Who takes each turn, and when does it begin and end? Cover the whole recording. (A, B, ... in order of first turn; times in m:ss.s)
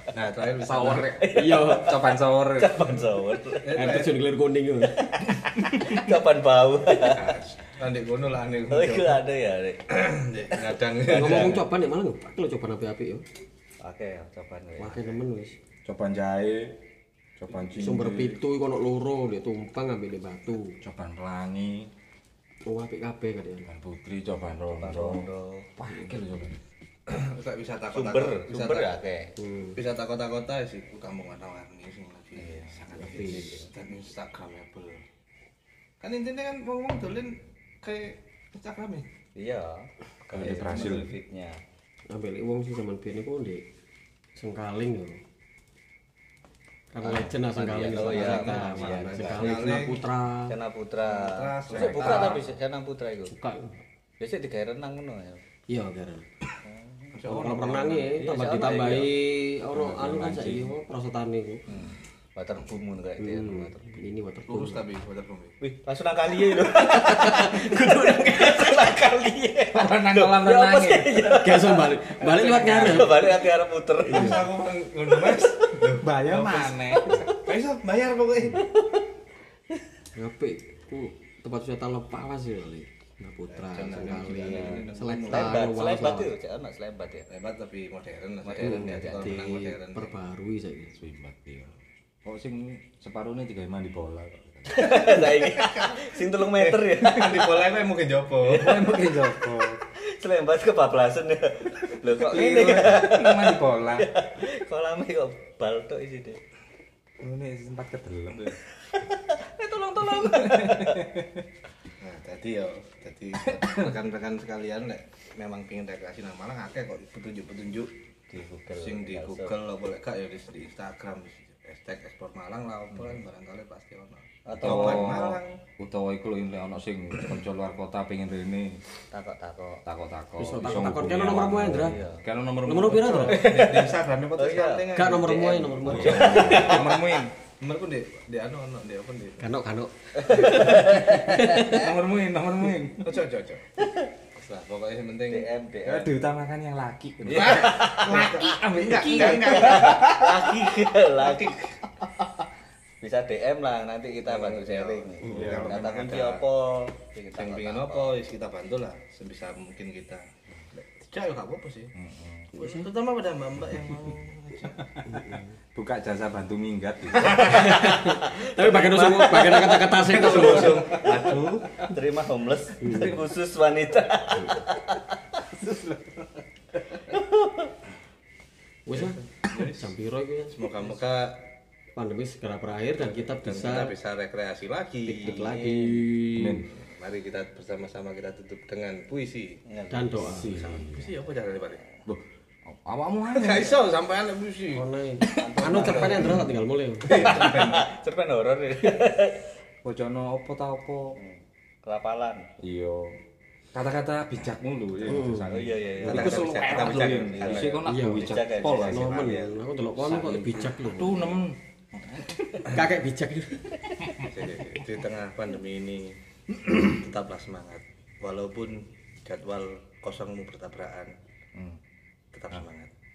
0:00.1-0:01.2 A
0:00.6-0:02.9 B
0:01.1-0:03.9 C
0:01.3-0:01.9 D
0:03.6-0:04.2 A
0:03.7-0:05.1 D
0:05.0-0:07.4 C
0:07.0-0:09.2 A
0:08.7-0:09.8 C
0:09.9-0:11.7 A
0:11.1-0:13.2 D
0:11.1-0:11.6 C
0:13.8-0:15.2 C
0:14.8-0:15.6 D
0:15.8-0:16.8 B
0:17.4-0:18.4 B
0:17.8-0:20.8 D
0:20.8-0:21.9 B
0:22.7-0:23.7 D
0:23.7-0:26.6 B
0:24.7-0:25.7 C
0:27.1-0:29.0 A
0:27.9-0:29.3 C
0:29.4-0:29.8 D
0:29.8-0:35.0 A
0:32.4-0:33.7 C
0:33.0-0:33.6 D
0:36.0-0:39.1 A
0:39.4-0:41.6 C
0:40.3-0:41.2 B
0:42.1-0:43.6 D
0:44.4-0:45.2 D
0:46.9-0:50.6 D
0:47.0-0:53.3 C
0:47.8-0:50.1 A
0:51.0-0:52.5 A
0:51.8-0:52.4 D
0:53.3-0:53.8 D
0:54.2-0:55.4 C
0:55.7-0:56.3 D
0:56.6-0:57.2 C
0:57.1-0:58.2 A
0:57.2-1:01.6 D
0:58.2-0:59.1 C
0:59.7-1:00.7 B
1:01.7-1:04.0 C
1:03.2-1:04.8 D
1:04.5-1:05.6 A
1:05.6-1:14.6 C
1:06.6-1:08.7 D
1:09.7-1:11.3 B
1:11.4-1:13.4 D
1:12.3-1:13.4 A
1:14.0-1:14.5 D
1:14.0-1:18.7 A
1:16.0-1:17.3 B
1:20.1-1:26.3 D
1:23.5-1:25.7 A
1:24.4-1:27.3 C
1:27.3-1:30.2 A
1:28.4-1:29.5 C
1:28.6-1:31.0 D
1:31.0-1:31.7 B
1:32.2-1:35.1 B
1:34.7-1:37.7 C
1:34.8-1:39.0 A
1:38.4-1:39.8 B
1:39.9-1:46.4 C
1:42.2-1:43.1 A
1:42.2-1:44.1 B
1:47.2-1:48.6 B
1:49.0-1:49.4 C
1:49.4-1:51.5 B
1:52.0-1:57.9 A
1:53.4-1:53.9 B
1:58.3-1:59.6 C
1:58.8-2:05.6 A
2:04.4-2:05.2 C
2:04.6-2:08.8 B
2:09.1-2:09.8 C
2:09.8-2:13.4 B
2:10.4-2:12.0 D
2:11.8-2:12.2 C
2:12.6-2:13.5 D
2:13.1-2:17.0 A
2:13.3-2:17.1 C
2:14.9-2:16.7 D
2:15.9-2:17.3 B
2:17.6-2:19.4 A
2:19.4-2:21.9 D
2:20.2-2:21.7 C
2:21.6-2:23.1 B
2:23.0-2:23.7 A
2:23.8-2:24.1 C
2:24.3-2:25.5 A
2:25.3-2:26.1 C
2:25.8-2:30.5 B
2:27.3-2:31.6 C
2:27.3-2:30.5 A
2:31.0-2:32.3 A
2:33.0-2:38.1 C
2:34.2-2:36.4 A
2:35.2-2:35.8 B
2:37.4-2:41.9 A
2:42.0-2:42.5 B
2:42.5-2:44.8 A
2:42.6-2:42.9 D
2:45.1-2:45.5 D
2:45.8-2:47.8 B
2:47.3-2:51.1 D
2:47.8-2:55.7 C
2:50.0-2:51.9 A
2:52.8-2:53.2 D
2:57.1-2:57.7 C
2:58.9-3:01.0 D
2:58.9-2:59.9 A
3:00.5-3:01.5 A
3:02.0-3:04.0 D
3:03.4-3:05.4 A
3:05.1-3:06.6 D
3:05.3-3:06.1 C
3:06.3-3:06.7 B
3:06.7-3:09.6 A
3:09.7-3:10.9 C
3:09.9-3:10.8 D
3:10.2-3:11.1 B
3:10.6-3:11.9 A
3:12.1-3:13.8 B
3:13.3-3:16.4 A
3:14.7-3:17.6 D
3:15.3-3:16.4 C
3:17.1-3:17.9 A
3:17.1-3:19.5 C
3:17.1-3:17.6 B
3:19.8-3:21.2 B
3:21.2-3:22.5 C
3:22.6-3:23.2 B
3:23.7-3:29.4 B
3:25.1-3:25.6 D
3:25.4-3:30.8 C
3:26.0-3:27.8 A
3:27.9-3:31.4 D
3:30.2-3:32.8 B
3:32.7-3:34.3 D
3:34.2-3:41.2 A
3:41.5-3:41.8 B
3:42.3-3:42.9 A